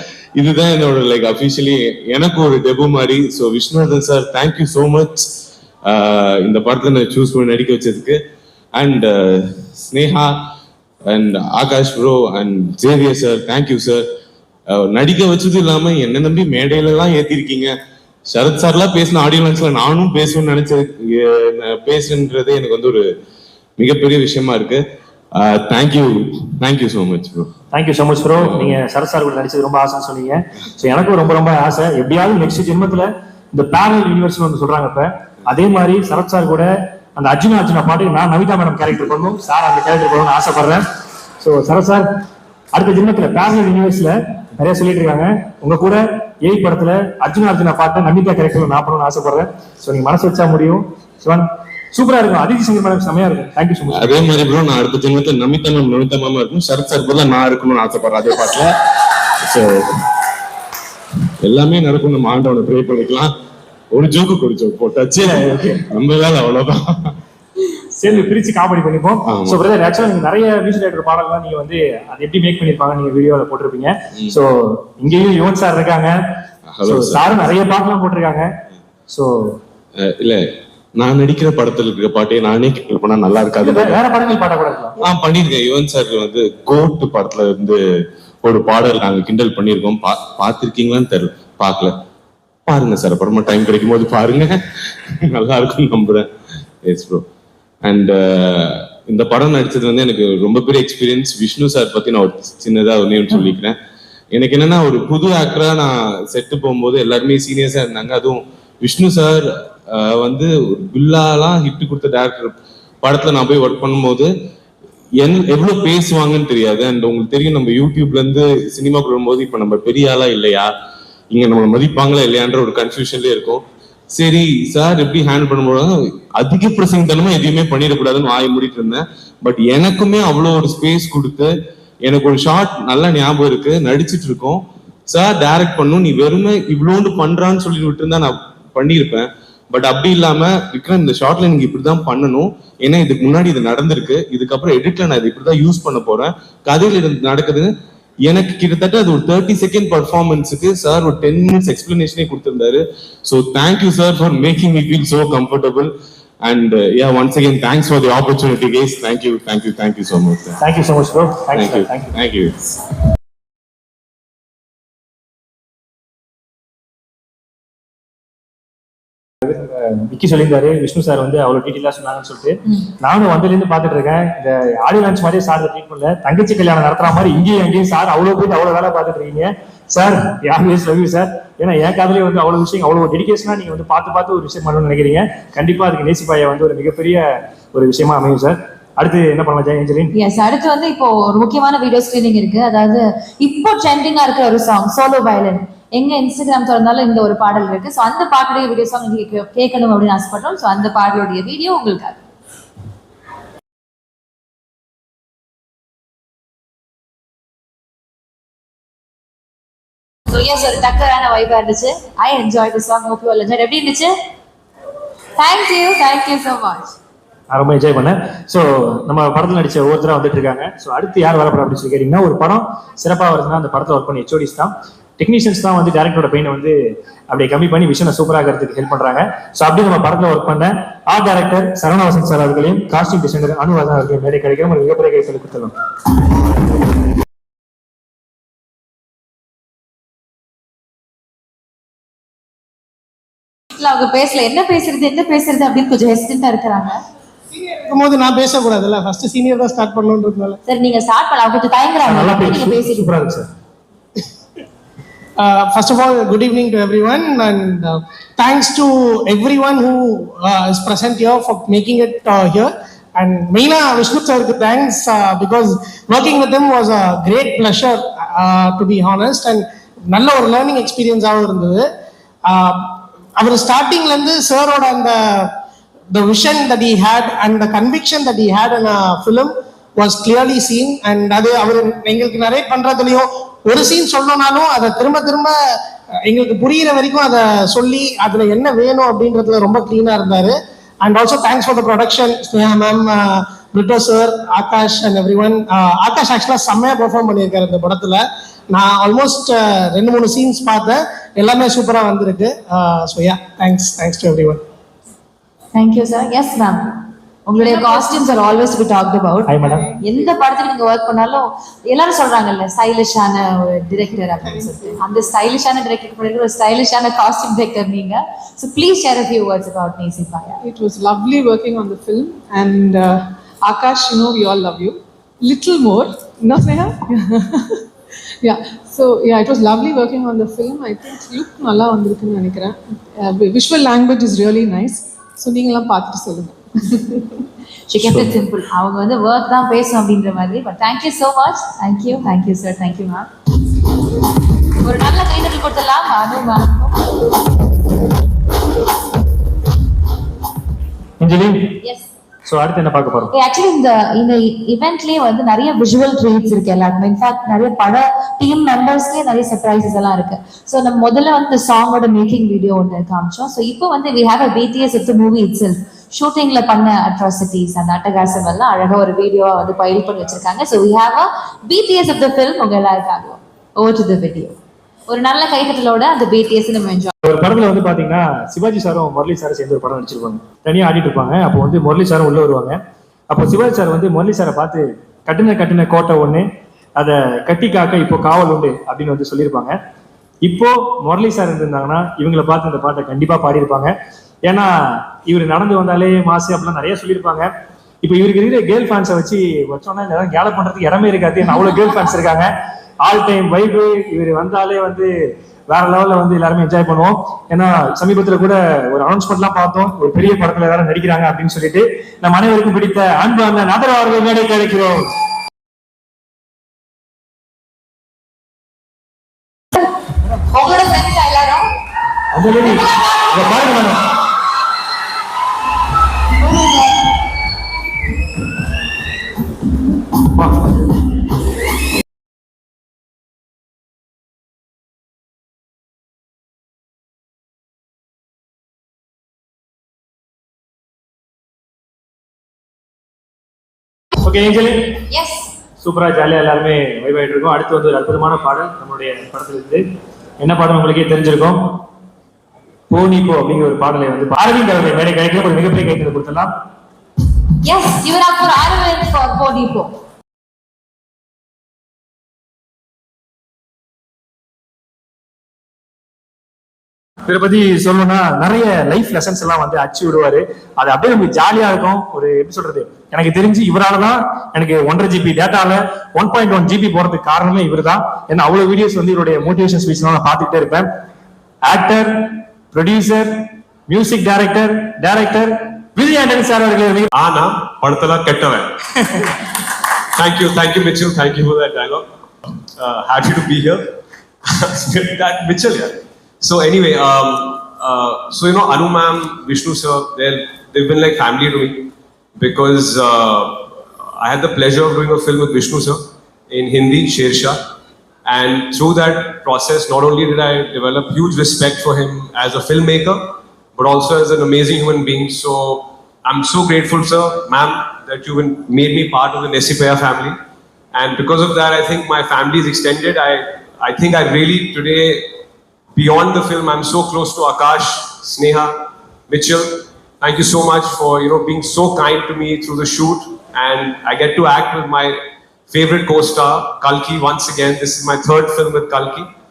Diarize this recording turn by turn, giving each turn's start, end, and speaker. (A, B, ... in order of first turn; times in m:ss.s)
0:00.4-0:05.3 A
0:05.9-0:08.2 A
0:08.8-0:10.4 A
0:11.1-0:14.0 A
0:14.7-0:17.7 A
0:18.3-0:23.0 A
0:23.8-0:24.8 A
0:25.4-0:27.5 A
0:27.7-0:40.8 B
0:28.3-0:28.8 A
0:41.4-0:42.1 B
0:42.7-0:54.3 B
0:53.9-0:58.7 A
0:59.4-0:59.9 A
1:01.4-1:03.3 A
1:03.9-1:07.2 A
1:05.2-1:05.8 B
1:08.0-1:16.2 B
1:08.0-1:08.4 A
1:09.3-1:09.6 A
1:16.7-1:17.5 A
1:16.8-1:18.5 B
1:19.1-1:19.6 B
1:20.0-1:20.4 A
1:21.0-1:24.0 A
1:23.6-1:25.0 B
1:25.0-1:27.8 A
1:28.4-1:31.9 A
1:32.7-1:36.3 A
1:36.8-1:37.2 A
1:37.8-1:43.8 A
1:44.3-1:54.3 A
1:55.2-2:00.7 A
2:01.3-2:11.5 A
2:12.0-2:27.7 A
2:28.3-2:35.9 A
2:36.4-2:40.6 A
2:40.6-2:42.1 B
2:41.5-2:42.7 A
2:49.4-3:10.1 B
3:10.1-3:22.2 C
3:30.3-3:34.1 C
3:35.4-3:37.0 C
3:37.5-3:55.7 B
4:03.7-4:07.0 C
4:07.5-4:10.6 D
4:10.7-4:13.1 C
4:12.0-4:13.5 B
4:15.4-4:31.9 D
4:32.5-4:35.5 D
4:36.1-5:04.6 D
5:05.8-5:06.8 C
5:07.5-5:20.6 C
5:07.6-5:08.5 E
5:09.5-5:09.9 B
5:09.6-5:10.4 E
5:20.6-5:27.8 E
5:28.4-5:37.2 E
5:37.9-5:43.3 C
5:38.0-5:38.3 B
5:44.8-5:46.9 C
5:51.2-5:51.8 B
5:51.8-5:52.1 C
5:52.5-5:53.3 B
5:53.3-6:14.6 C
6:15.1-6:17.1 C
6:17.2-6:22.8 B
6:23.3-6:26.5 B
6:27.0-6:29.8 B
6:30.4-6:33.9 B
6:34.4-6:37.5 B
6:38.0-6:42.5 B
6:43.0-6:45.1 B
6:45.7-6:55.1 B
7:00.5-7:01.7 C
7:02.3-7:04.0 B
7:02.5-7:03.5 C
7:06.4-7:07.0 C
7:24.2-7:24.9 B
7:25.1-7:25.5 C
7:25.8-7:29.8 B
7:30.4-7:31.6 B
7:32.9-7:36.5 B
7:37.6-7:39.9 C
7:47.3-8:00.9 B
8:01.6-8:07.1 B
8:07.1-8:08.8 F
8:10.2-8:12.0 F
8:12.8-8:13.8 F
8:14.5-8:27.6 F
8:28.3-8:40.4 F
8:40.9-8:45.3 F
8:46.0-8:48.7 F
8:49.3-8:55.2 F
8:55.7-8:59.3 F